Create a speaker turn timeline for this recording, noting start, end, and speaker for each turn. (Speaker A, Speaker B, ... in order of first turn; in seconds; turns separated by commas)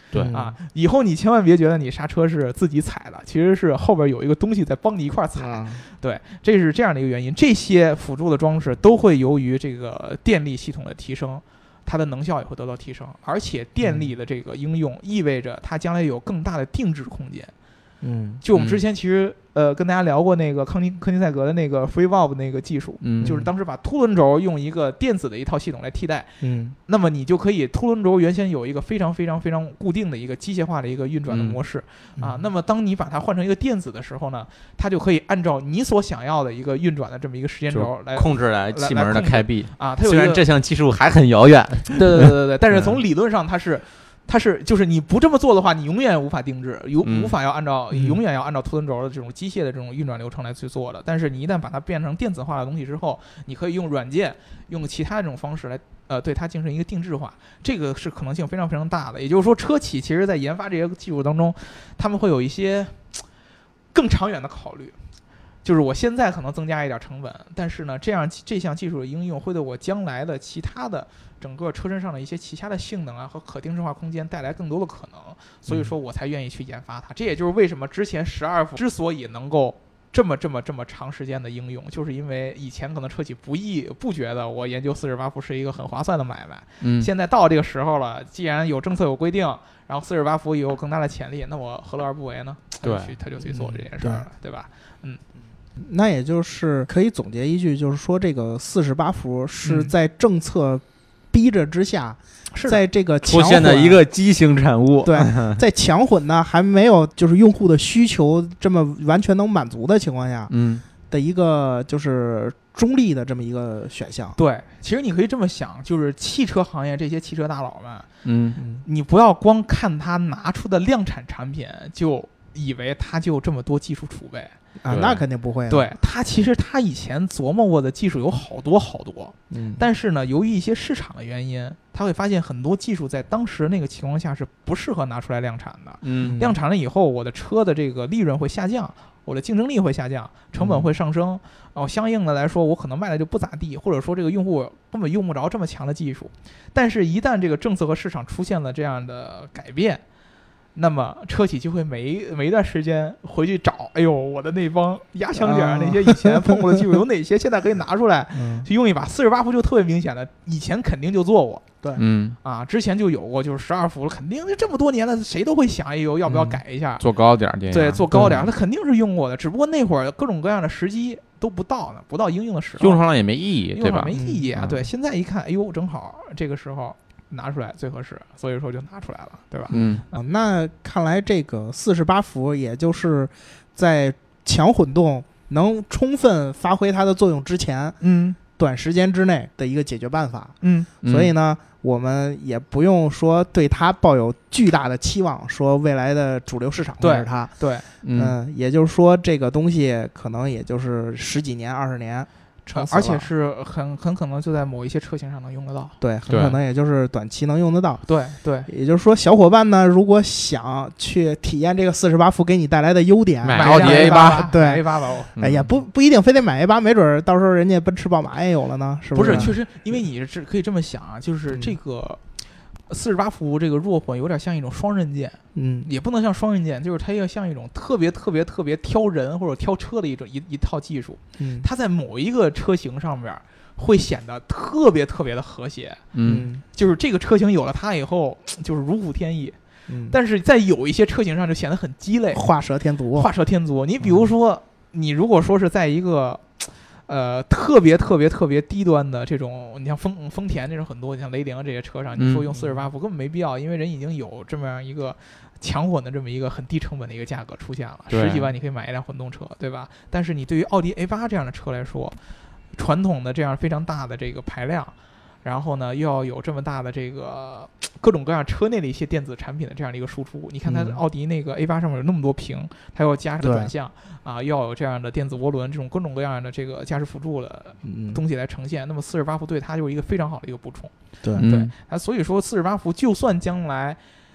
Speaker A: 0.2-0.6, Speaker B: 0.3-17.5, Speaker A: 5.4-5.8, Speaker A: 13.8-14.1, Speaker A: 18.0-18.4, Speaker B: 18.4-26.3, Speaker C: 18.6-18.8, Speaker C: 23.0-23.4, Speaker A: 23.2-23.5, Speaker A: 26.4-26.8, Speaker B: 26.9-40.4, Speaker C: 31.3-31.6, Speaker A: 32.2-32.5, Speaker C: 37.7-43.0, Speaker B: 41.9-63.2, Speaker C: 47.0-47.3, Speaker A: 47.9-48.2, Speaker B: 63.9-65.0, Speaker B: 65.6-95.2, Speaker C: 86.8-87.1, Speaker C: 92.8-93.2, Speaker A: 93.6-94.3, Speaker A: 95.8-104.0, Speaker B: 99.6-99.9, Speaker B: 102.5-102.8, Speaker C: 103.2-105.6, Speaker A: 105.0-110.5, Speaker C: 110.5-110.8, Speaker A: 111.1-114.4, Speaker B: 114.4-118.1, Speaker C: 118.2-118.6, Speaker A: 118.6-118.8, Speaker B: 118.8-124.5, Speaker A: 124.8-125.9, Speaker C: 124.9-125.2, Speaker B: 125.7-150.0, Speaker A: 129.5-129.8, Speaker C: 136.0-136.4, Speaker A: 136.2-136.6, Speaker A: 140.6-140.9, Speaker B: 150.8-161.7, Speaker A: 155.4-156.9, Speaker A: 158.3-158.7, Speaker C: 161.9-162.4, Speaker B: 162.4-167.1, Speaker A: 166.3-166.6, Speaker C: 167.0-168.4, Speaker B: 167.7-173.0, Speaker A: 168.1-168.4, Speaker C: 172.8-174.8, Speaker B: 173.7-180.1, Speaker A: 174.1-174.5, Speaker C: 179.7-180.0, Speaker A: 180.1-188.0, Speaker B: 188.0-188.4, Speaker A: 188.6-197.5, Speaker B: 190.6-190.9, Speaker C: 191.0-191.3, Speaker B: 197.0-197.9, Speaker C: 198.0-198.4, Speaker A: 198.1-203.3, Speaker B: 202.7-206.0, Speaker A: 206.0-208.0, Speaker C: 206.3-206.6, Speaker B: 208.1-208.7, Speaker A: 208.7-214.8, Speaker C: 213.4-214.4, Speaker B: 213.6-215.3, Speaker A: 215.4-219.5, Speaker C: 215.4-215.7, Speaker B: 219.1-222.2, Speaker B: 222.9-236.1, Speaker A: 225.5-225.9, Speaker A: 231.4-231.7, Speaker C: 236.1-236.5, Speaker A: 236.2-236.6, Speaker B: 236.7-239.6, Speaker A: 239.9-240.2, Speaker B: 240.1-242.5, Speaker A: 242.3-243.3, Speaker B: 243.2-262.2, Speaker C: 252.2-252.4, Speaker C: 258.1-258.5, Speaker B: 262.8-284.0, Speaker A: 270.6-271.0, Speaker A: 273.4-273.7, Speaker A: 277.8-278.2, Speaker C: 281.3-281.7